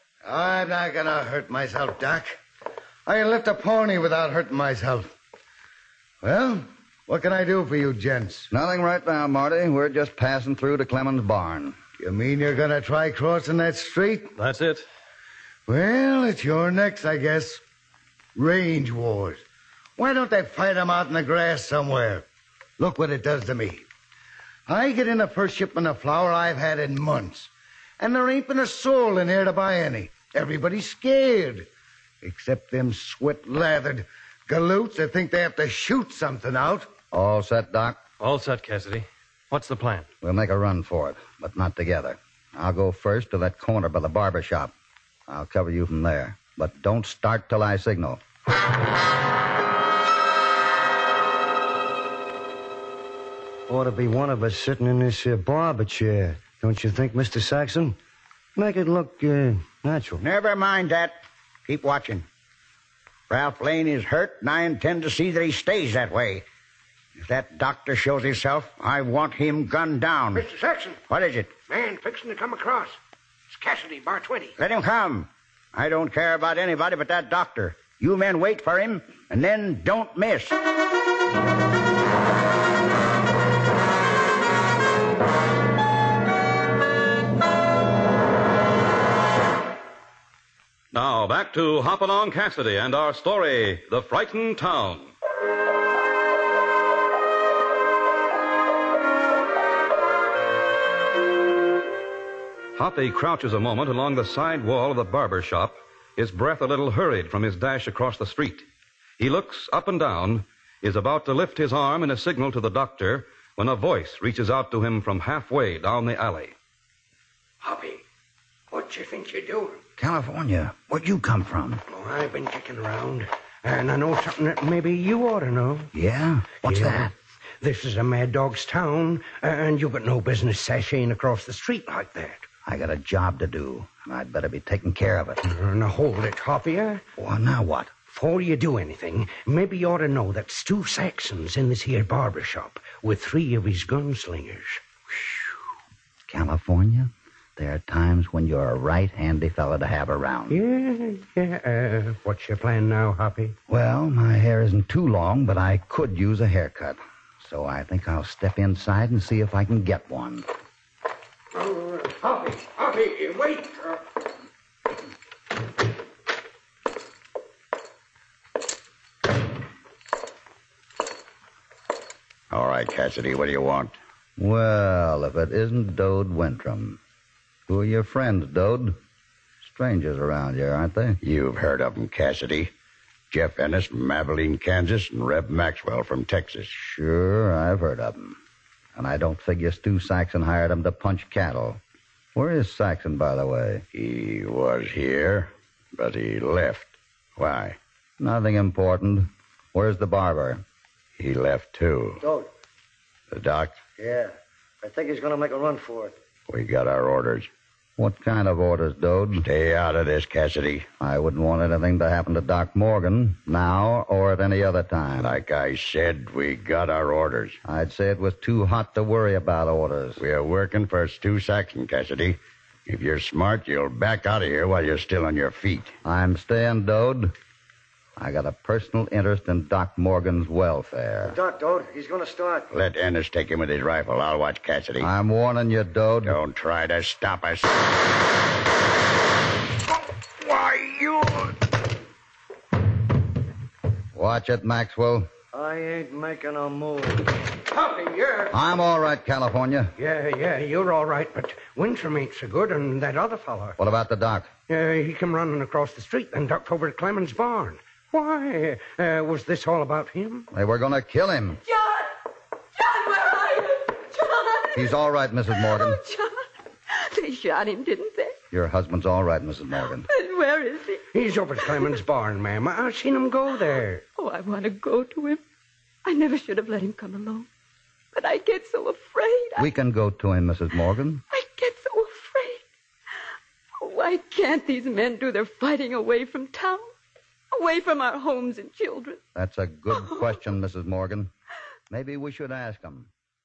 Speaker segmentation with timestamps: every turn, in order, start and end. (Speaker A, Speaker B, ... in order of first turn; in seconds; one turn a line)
Speaker A: 0.2-2.4
Speaker A: 3.1-5.1
Speaker A: 6.2-8.5
Speaker B: 8.5-11.8
Speaker A: 12.0-14.3
Speaker C: 14.4-14.9
Speaker A: 15.7-17.6
Speaker A: 18.4-19.4
Speaker A: 20.0-22.2
Speaker A: 22.8-23.9
Speaker A: 24.7-31.7
Speaker A: 32.2-36.9
Speaker B: 37.1-38.0
Speaker C: 38.2-40.1
Speaker B: 40.2-44.7
Speaker B: 45.3-48.2
Speaker D: 53.7-58.0
Speaker D: 58.6-60.2
Speaker E: 60.2-61.1
Speaker E: 61.7-62.2
Speaker E: 63.3-66.5
Speaker E: 67.2-70.4
Speaker F: 70.3-71.0
Speaker E: 71.1-71.5
Speaker F: 71.7-73.0
Speaker F: 73.5-74.5
Speaker E: 74.6-80.6
Speaker G: 90.9-95.1
Speaker G: 102.8-108.7
Speaker G: 109.2-116.5
Speaker F: 117.6-118.0
Speaker F: 118.7-119.8
Speaker B: 120.0-121.8
Speaker F: 121.9-125.9
Speaker B: 125.9-127.1
Speaker F: 126.6-132.4
Speaker B: 132.7-135.4
Speaker F: 135.5-137.0
Speaker B: 137.2-137.9
Speaker F: 138.1-144.8
Speaker B: 146.3-150.6
Speaker F: 150.5-153.6
Speaker B: 153.7-160.5
Speaker F: 161.6-164.0
Speaker E: 172.5-174.0
Speaker B: 174.4-177.0
Speaker B: 177.7-179.0
Speaker B: 179.6-181.2
Speaker E: 181.2-182.7
Speaker E: 183.3-186.7
Speaker B: 186.8-188.4
Speaker B: 189.0-191.8
Speaker B: 192.3-193.8
Speaker E: 193.9-197.8
Speaker B: 198.2-200.6
Speaker E: 201.2-202.2
Speaker D: 202.2-202.5
Speaker E: 203.3-203.8
Speaker D: 204.0-206.2
Speaker E: 206.5-207.5
Speaker B: 208.0-209.4
Speaker E: 209.4-210.9
Speaker B: 211.0-215.3
Speaker E: 215.2-217.6
Speaker B: 217.7-220.2
Speaker E: 220.2-225.9
Speaker B: 226.0-227.3
Speaker B: 228.2-231.4
Speaker D: 231.2-232.7
Speaker E: 232.7-235.1
Speaker B: 235.0-236.4
Speaker E: 236.2-237.7
Speaker E: 240.4-241.5
Speaker B: 244.2-245.3
Speaker D: 245.5-247.3
Speaker F: 247.7-248.5
Speaker B: 248.5-249.9
Speaker F: 250.0-253.8
Speaker B: 253.8-254.5
Speaker F: 254.7-260.5
Speaker B: 260.5-261.6
Speaker H: 261.7-262.1
Speaker H: 262.8-265.0
Speaker B: 264.8-266.0
Speaker H: 265.5-268.4
Speaker B: 268.5-270.1
Speaker H: 270.0-271.1
Speaker F: 271.1-274.0
Speaker H: 274.2-275.4
Speaker H: 276.1-277.5
Speaker H: 278.1-279.7
Speaker B: 279.6-281.2
Speaker H: 281.3-282.6
Speaker H: 283.8-286.9
Speaker H: 287.5-289.2
Speaker B: 289.4-291.3
Speaker H: 289.9-290.4
Speaker B: 291.9-293.1